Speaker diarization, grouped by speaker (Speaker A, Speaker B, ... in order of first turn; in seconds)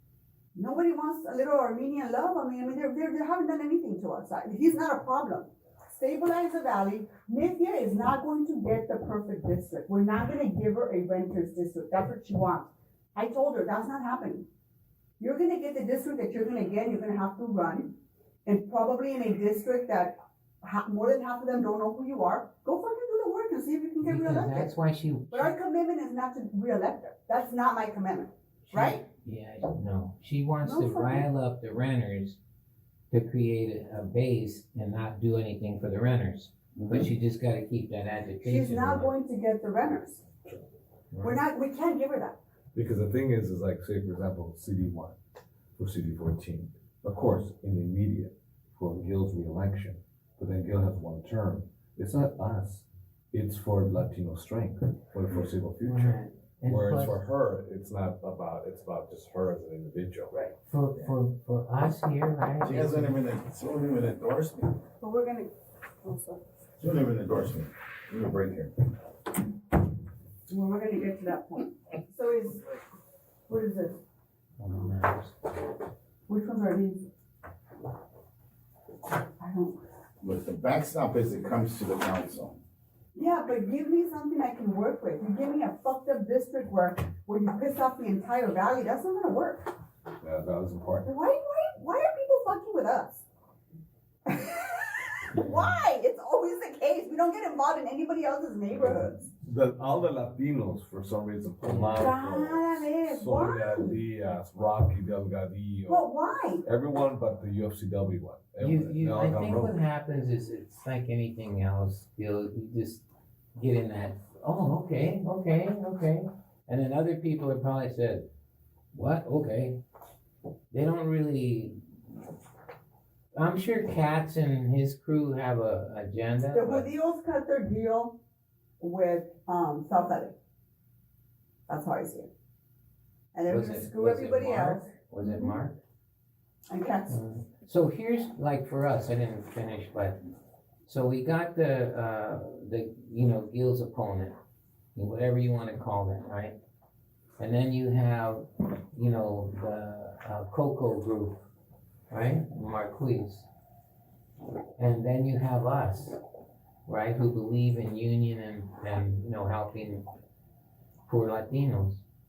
Speaker A: 0.5-14.4, 15.2-24.7, 25.3-29.0, 30.6-31.3, 38.4-40.2, 41.2-42.4, 65.0-65.5, 66.0-66.4, 70.5-72.7, 73.5-74.0, 76.3-77.0, 79.4-79.8, 83.1-89.7, 91.0-93.2, 94.2-99.3, 102.0-104.0, 105.9-106.6, 126.5-128.2, 128.8-130.3, 131.7-132.3, 133.3-135.5, 136.7-137.2
Speaker B: 24.0-25.5, 28.6-32.4, 33.1-39.1, 41.1-41.4, 55.8-57.2, 60.6-63.1, 74.6-75.3, 95.3-95.7, 101.6-102.1, 108.6-113.0, 113.5-118.3, 118.9-119.8, 120.7-121.8, 123.3-126.9, 133.5-135.8, 137.1-140.2, 140.8-144.4, 144.9-146.6, 147.4-151.4, 152.1-153.5, 154.8-156.2, 156.8-160.0, 161.1-162.0
Speaker C: 36.7-37.1, 62.6-64.8, 66.8-68.7, 80.2-82.6
Speaker D: 42.7-45.2, 45.8-60.3, 90.2-91.1, 98.8-106.1, 106.6-109.7